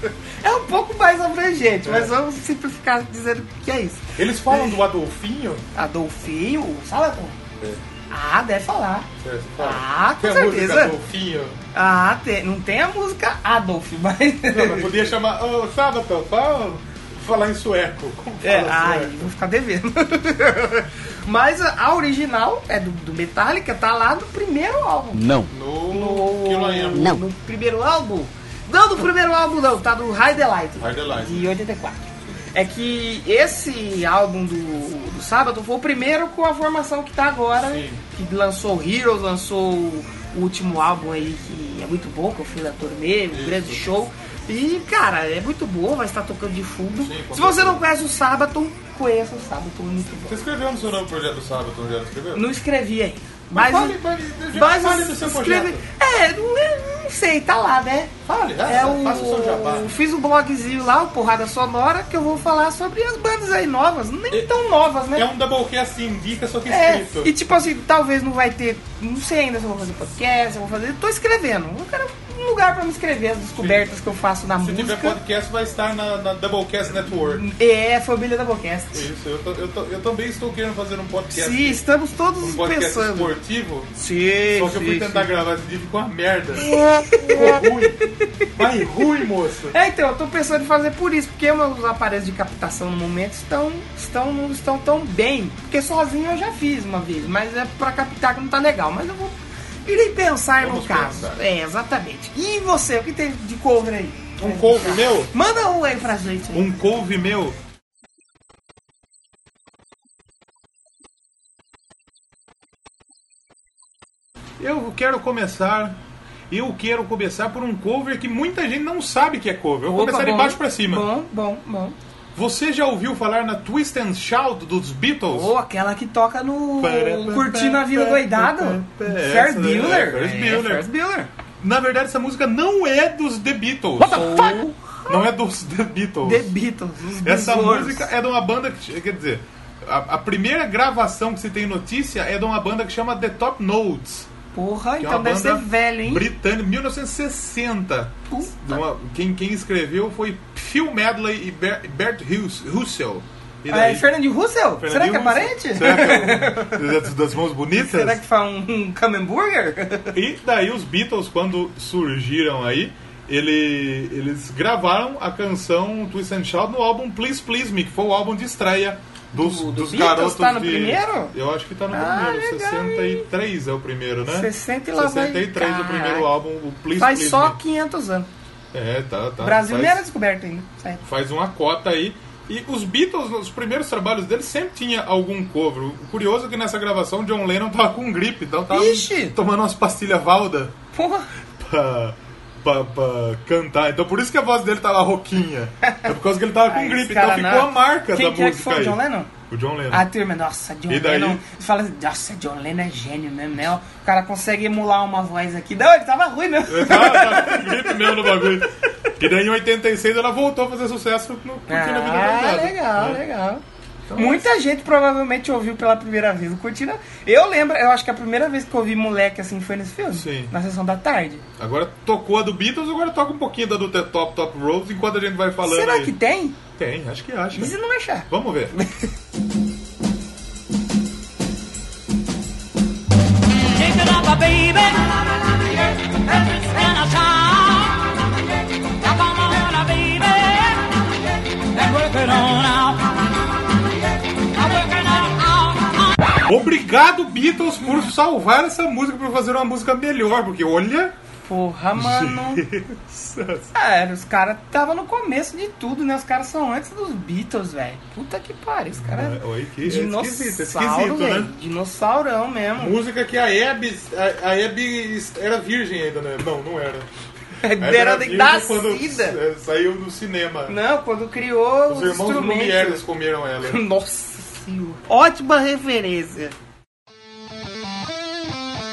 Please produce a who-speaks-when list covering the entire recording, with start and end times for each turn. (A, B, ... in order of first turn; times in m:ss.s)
0:00.4-0:04.8 A
0:01.8-0:02.1 B
0:04.2-0:05.6 B
0:05.8-0:07.4 A
0:08.1-0:09.1 A
0:09.2-0:11.6 B
0:09.6-0:11.0 A
0:11.7-0:14.9 A
0:14.5-0:19.3 B
0:18.4-0:32.0 A
0:25.4-0:27.2 B
0:30.8-0:31.6 B
0:32.5-0:50.4 A
0:37.6-0:38.0 B
0:43.3-0:43.8 B
0:47.0-0:47.8 B
0:50.2-0:52.5 B
0:52.3-0:54.0 A
0:53.5-0:55.8 B
0:54.5-1:05.3 A
0:58.3-0:59.9 B
1:04.3-1:04.6 B
1:05.1-1:07.3 B
1:06.7-1:15.2 A
1:13.6-1:13.9 B
1:14.6-1:17.4 B
1:17.4-1:19.1 A
1:18.9-1:21.8 B
1:21.3-1:23.3 A
1:22.4-1:23.9 B
1:23.9-1:25.3 A
1:24.5-1:29.8 B
1:26.6-1:27.7 A
1:29.7-1:46.7 A
1:40.6-1:41.4 B
1:44.4-1:45.3 B
1:46.5-1:47.6 B
1:54.6-1:56.0 B
1:56.5-2:01.1 B
1:59.9-2:02.0 A
2:02.4-2:05.6 B
2:05.3-2:11.3 A
2:06.8-2:10.9 B
2:11.6-2:14.6 B
2:14.1-2:15.0 A
2:15.1-2:16.5 B
2:16.2-2:18.1 A
2:17.2-2:24.3 B
2:24.5-2:26.3 A
2:25.0-2:34.2 B
2:28.3-2:28.8 A
2:33.7-2:36.8 A
2:34.8-2:38.2 B
2:37.8-2:40.1 A
2:40.1-2:57.6 B
2:49.3-2:51.3 A
2:51.9-2:53.3 A
2:54.3-2:56.3 A
2:57.0-2:58.3 A
2:58.7-3:00.0 B
2:59.4-3:01.0 A
3:01.0-3:10.8 B
3:08.7-3:09.4 A
3:10.9-3:11.3 A
3:11.6-3:20.1 B
3:16.7-3:19.3 A
3:19.9-3:28.6 A
3:20.9-3:21.4 B
3:26.7-3:33.2 B
3:31.7-3:33.6 A
3:34.1-3:34.5 B
3:34.2-3:41.4 A
3:40.1-3:40.5 B
3:41.6-3:46.1 B
3:45.6-3:46.6 A
3:46.8-3:47.8 B
3:47.5-3:48.9 A
3:48.3-3:48.8 B
3:53.6-4:03.3 C
4:04.5-4:06.2 C
4:06.4-4:11.2 B
4:11.4-4:12.6 A
4:12.0-4:13.7 B
4:13.8-4:23.0 A
4:18.9-4:21.5 B
4:22.8-4:27.1 B
4:27.6-4:29.4 A
4:27.8-4:30.8 B
4:30.7-4:33.0 A
4:31.9-4:33.8 B
4:33.6-4:36.5 A